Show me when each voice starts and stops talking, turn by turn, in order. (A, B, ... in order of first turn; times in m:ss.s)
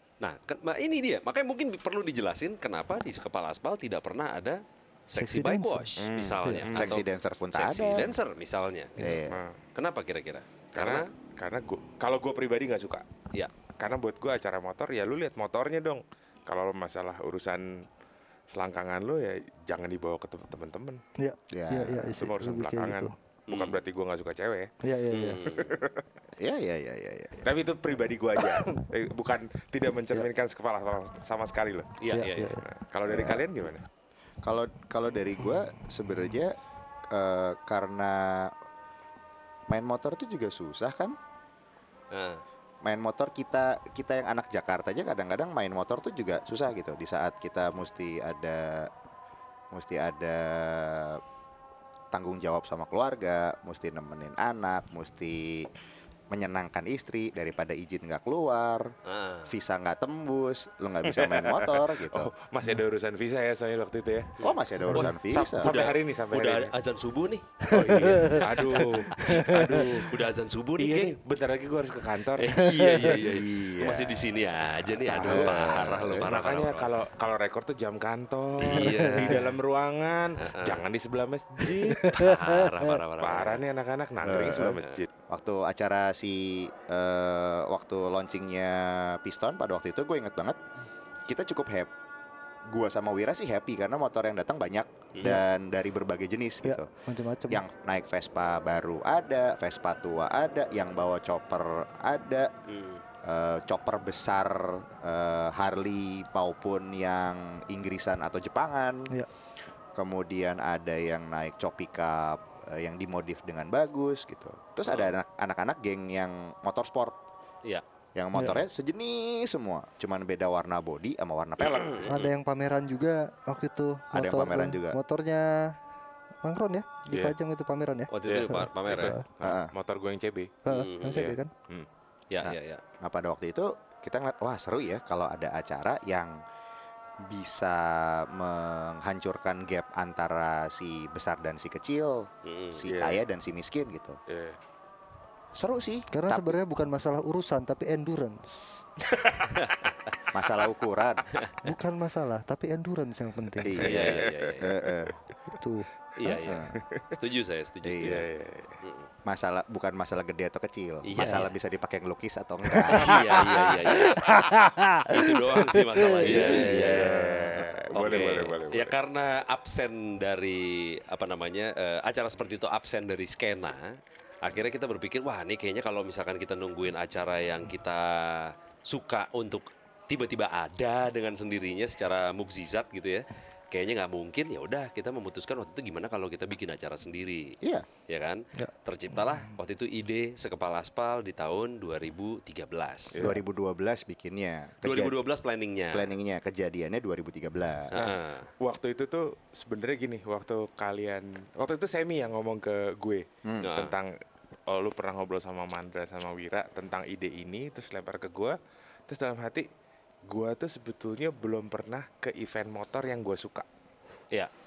0:00.2-0:09.1 A
0:05.2-0:06.7 B
0:06.0-0:07.0 C
0:06.7-0:08.1 D
0:09.0-0:09.2 B
0:09.0-0:09.4 D
0:09.3-0:09.6 C
0:09.7-0:11.1 A
0:10.7-0:13.0 C
0:13.8-0:17.8 C
0:18.5-0:21.0 C
0:21.2-0:23.1 B
0:21.5-0:22.1 D
0:22.1-0:24.7 C
0:23.5-0:23.8 A
0:24.8-0:25.4 B
0:25.1-0:25.7 A
0:25.4-0:26.0 C
0:26.4-0:27.4 D
0:27.4-0:32.0 C
0:28.4-0:28.7 B
0:32.0-0:32.6 A
0:32.1-0:32.6 B
0:32.6-0:33.8 C
0:33.0-0:33.5 D
0:34.4-0:36.6 D
0:37.1-0:38.5 D
0:39.7-0:41.2 D
0:42.1-0:42.4 A
0:42.8-0:48.9 D
0:49.7-0:51.2 D
0:52.1-0:55.7 D
0:56.3-0:58.9 D
0:59.0-0:59.5 A
0:59.5-1:02.3 D
1:01.0-1:04.3 C
1:04.4-1:05.0 A
1:04.4-1:05.7 D
1:04.8-1:05.1 B
1:05.2-1:06.7 C
1:05.6-1:11.1 A
1:07.7-1:09.8 B
1:07.7-1:10.2 C
1:10.8-1:12.7 C
1:12.4-1:16.9 A
1:12.6-1:13.2 B
1:13.2-1:14.3 D
1:15.0-1:16.3 D
1:16.2-1:22.2 C
1:18.6-1:19.4 A
1:18.7-1:19.5 B
1:20.4-1:20.8 A
1:21.7-1:23.0 B
1:22.0-1:23.6 A
1:23.2-1:25.1 C
1:24.2-1:30.6 D
1:31.3-1:31.9 D
1:32.7-1:36.9 D
1:36.6-1:37.6 B
1:37.5-1:42.5 D
1:42.7-1:43.0 A
1:43.2-1:49.1 D
1:49.9-1:57.2 D
1:54.9-1:55.1 A
1:58.1-2:02.1 D
1:58.3-1:58.6 B
2:01.6-2:02.3 A
2:02.0-2:05.8 B
2:04.1-2:05.0 D
2:06.4-2:09.2 B
2:07.1-2:07.4 C
2:08.1-2:09.2 A
2:08.3-2:10.6 C
2:09.4-2:09.7 D
2:10.6-2:11.5 B
2:10.7-2:11.3 A
2:11.2-2:11.9 C
2:12.3-2:12.8 A
2:12.4-2:16.4 D
2:17.2-2:24.2 D
2:22.4-2:22.8 A
2:22.8-2:23.2 C
2:24.3-2:24.6 C
2:25.5-2:26.6 D
2:26.1-2:28.8 B
2:29.1-2:29.5 C
2:29.5-2:30.2 A
2:30.3-2:31.3 D
2:31.3-2:31.7 A
2:31.6-2:33.9 B
2:33.6-2:35.2 D
2:33.8-2:34.8 A
2:33.8-2:35.1 C
2:35.5-2:35.9 B
2:36.2-2:38.2 A
2:36.3-2:36.7 D
2:36.7-2:37.1 C
2:37.8-2:38.2 D
2:38.0-2:38.8 C
2:38.8-2:39.1 A
2:39.2-2:43.6 D
2:41.0-2:41.5 A
2:42.9-2:44.4 A
2:42.9-2:43.4 B
2:44.0-2:46.4 B
2:45.0-2:47.3 A
2:46.2-2:48.4 D
2:46.3-2:49.0 C
2:47.9-3:13.2 A
3:07.6-3:07.9 D
3:08.6-3:09.5 B
3:13.1-3:15.2 D
3:14.8-3:16.1 A
3:15.9-3:18.1 D
3:17.9-3:18.5 A
3:18.6-3:24.1 C
3:23.4-3:23.7 D
3:23.6-3:23.9 A
3:24.7-3:28.6 C
3:29.1-3:29.7 C
3:30.2-3:33.7 C